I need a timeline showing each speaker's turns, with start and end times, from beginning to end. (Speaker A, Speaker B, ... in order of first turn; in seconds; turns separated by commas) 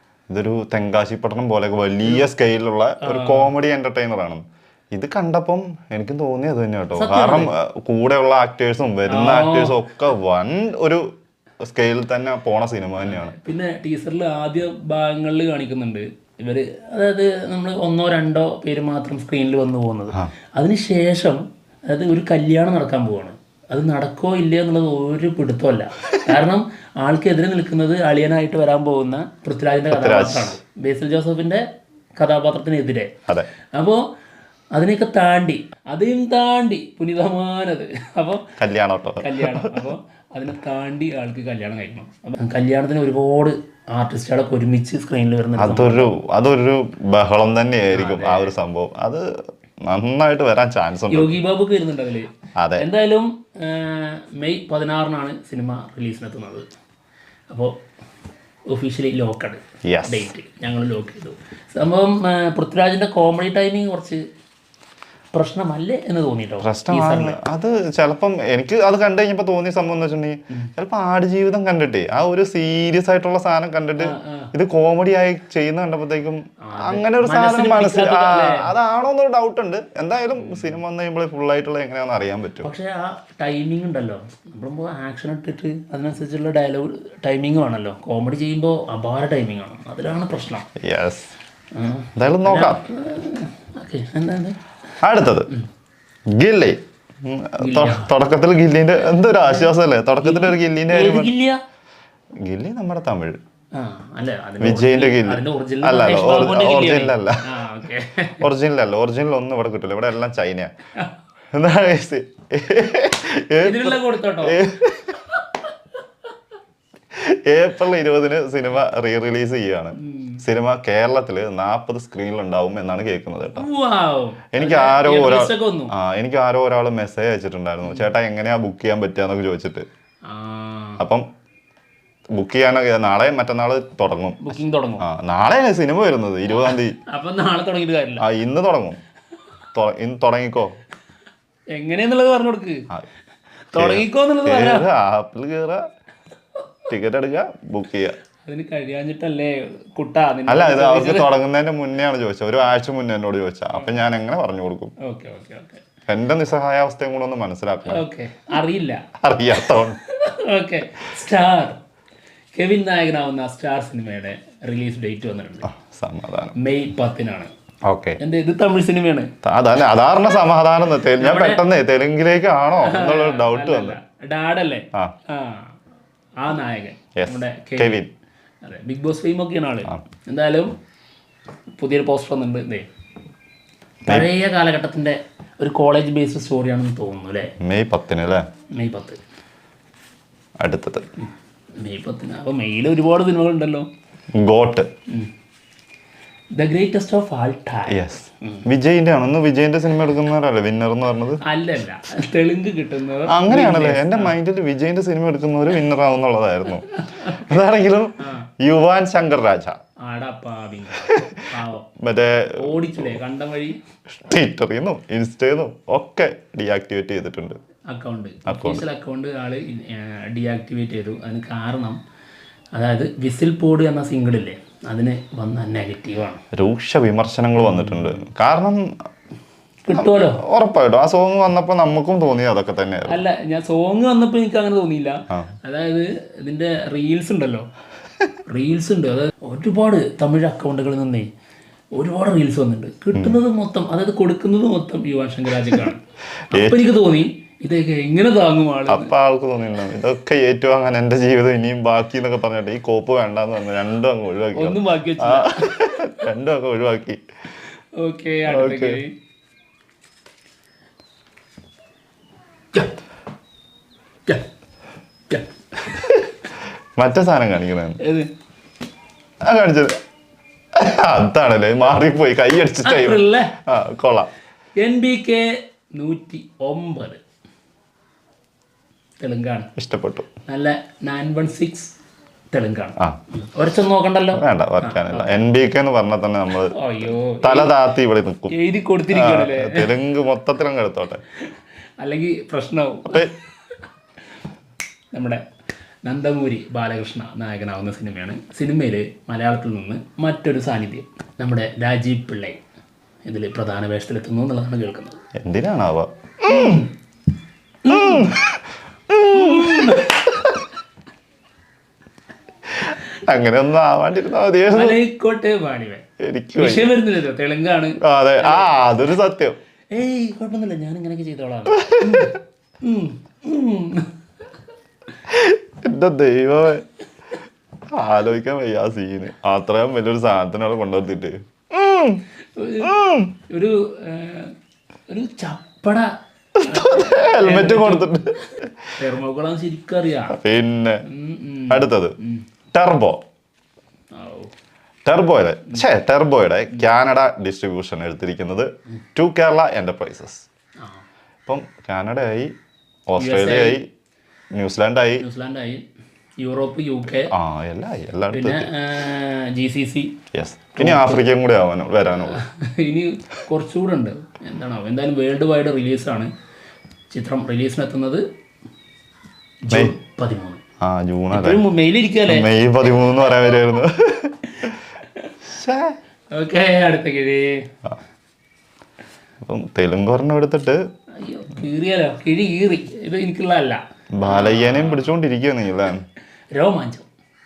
Speaker A: 0.3-11.0, Speaker B: 3.0-3.5, Speaker B: 6.9-7.5, Speaker B: 9.1-9.8, Speaker A: 11.6-13.3, Speaker B: 13.0-31.6, Speaker A: 29.9-30.6, Speaker B: 32.2-33.1, Speaker B: 33.7-34.0, Speaker B: 34.7-38.5, Speaker A: 38.6-39.8, Speaker B: 39.2-46.1, Speaker A: 45.6-49.3, Speaker B: 47.9-48.5, Speaker A: 49.9-51.4, Speaker B: 51.1-56.6, Speaker A: 52.6-52.9, Speaker B: 58.7-64.2, Speaker A: 59.8-60.3, Speaker B: 65.3-67.4, Speaker A: 66.6-82.7, Speaker B: 74.0-74.5, Speaker B: 76.6-78.7, Speaker B: 80.3-80.8, Speaker B: 82.6-90.7, Speaker A: 90.8-91.3, Speaker B: 91.7-94.6, Speaker A: 92.2-92.8, Speaker A: 95.0-95.5, Speaker A: 96.3-101.3, Speaker B: 97.6-98.1, Speaker B: 99.4-101.6, Speaker A: 102.4-103.4, Speaker B: 103.7-108.4, Speaker A: 104.6-107.4, Speaker A: 108.4-110.7, Speaker A: 111.5-115.2, Speaker B: 113.6-114.6, Speaker A: 117.1-123.7, Speaker B: 120.0-120.4, Speaker B: 123.5-125.9, Speaker A: 124.5-129.8, Speaker B: 130.2-131.0, Speaker A: 131.0-131.2, Speaker A: 132.3-136.9, Speaker B: 134.4-135.0, Speaker B: 136.5-138.2, Speaker A: 138.2-139.0, Speaker A: 139.7-140.7, Speaker B: 141.7-142.9, Speaker B: 143.7-144.8, Speaker A: 143.7-145.8, Speaker A: 146.9-148.2, Speaker B: 148.4-151.3, Speaker A: 150.5-154.9, Speaker B: 153.7-154.0, Speaker B: 155.0-155.8, Speaker A: 156.1-158.0, Speaker B: 157.9-159.0, Speaker A: 159.2-160.0, Speaker B: 159.6-161.8, Speaker B: 162.5-165.7, Speaker A: 165.7-166.5, Speaker B: 166.6-167.5, Speaker A: 167.8-168.2, Speaker B: 168.2-169.3, Speaker A: 169.4-174.0, Speaker B: 171.2-171.6, Speaker B: 172.8-175.7, Speaker B: 176.4-178.0, Speaker A: 177.2-178.1, Speaker B: 178.6-180.7, Speaker B: 181.7-182.9, Speaker B: 184.1-187.5, Speaker A: 187.6-188.4, Speaker B: 188.8-189.2, Speaker A: 190.6-191.1, Speaker B: 191.8-193.9, Speaker A: 194.3-194.9, Speaker B: 196.6-198.6, Speaker A: 197.9-201.4, Speaker B: 201.4-204.3, Speaker A: 203.3-209.8, Speaker B: 206.8-207.6, Speaker B: 208.2-208.5, Speaker B: 210.0-211.9, Speaker A: 211.0-211.4, Speaker A: 212.0-213.2, Speaker B: 212.6-213.8, Speaker A: 214.2-217.6, Speaker B: 217.9-222.0, Speaker A: 218.4-218.8, Speaker B: 222.7-226.4, Speaker A: 226.5-228.9, Speaker B: 227.6-228.2, Speaker B: 229.8-230.4, Speaker A: 229.9-233.2, Speaker B: 233.1-237.7, Speaker B: 238.5-241.3, Speaker B: 242.0-249.1, Speaker A: 246.5-246.9, Speaker A: 248.9-257.2, Speaker B: 254.5-255.8, Speaker B: 258.0-259.1, Speaker A: 258.5-259.0, Speaker B: 265.3-266.0, Speaker A: 267.0-268.0, Speaker B: 268.0-268.3, Speaker A: 269.4-270.0, Speaker A: 270.7-274.3, Speaker B: 272.8-273.5, Speaker B: 274.8-277.2, Speaker B: 279.2-279.7, Speaker A: 279.8-280.3, Speaker B: 280.5-281.9, Speaker B: 282.5-285.4, Speaker A: 284.3-286.7, Speaker B: 286.7-287.7, Speaker A: 287.4-288.5, Speaker B: 288.5-289.9, Speaker A: 289.1-291.2, Speaker B: 292.0-293.3, Speaker B: 295.1-295.4, Speaker B: 296.0-302.6, Speaker B: 303.2-305.2, Speaker A: 305.4-306.9, Speaker B: 306.5-306.9, Speaker B: 307.8-308.4, Speaker A: 307.9-310.6, Speaker B: 309.3-310.3, Speaker A: 312.7-315.0, Speaker B: 314.7-316.0, Speaker A: 316.2-316.9, Speaker B: 316.6-318.8, Speaker A: 318.0-319.6, Speaker B: 319.9-324.1, Speaker A: 321.8-322.3, Speaker A: 325.3-326.8, Speaker A: 327.9-332.2, Speaker B: 332.6-334.5, Speaker A: 332.8-333.3, Speaker B: 335.1-338.4, Speaker A: 336.6-338.9, Speaker B: 339.0-340.4, Speaker A: 340.3-341.0, Speaker B: 341.1-342.4, Speaker A: 341.7-342.1, Speaker A: 342.7-343.2, Speaker B: 344.1-344.5, Speaker A: 345.1-350.4, Speaker A: 351.4-352.5, Speaker A: 353.1-353.9, Speaker B: 353.2-353.8, Speaker A: 354.5-355.2, Speaker B: 355.2-355.8, Speaker B: 356.4-357.3, Speaker A: 357.3-358.7, Speaker B: 358.3-360.1, Speaker A: 360.3-362.4, Speaker B: 360.7-361.2, Speaker B: 362.3-366.3, Speaker B: 367.1-368.2, Speaker B: 369.6-370.6, Speaker A: 370.8-371.6, Speaker B: 371.3-372.5, Speaker A: 372.3-374.4, Speaker B: 374.6-375.3, Speaker A: 375.4-375.9, Speaker B: 376.3-377.6, Speaker A: 379.4-380.8, Speaker B: 381.2-385.1, Speaker A: 384.1-386.0, Speaker B: 386.5-387.1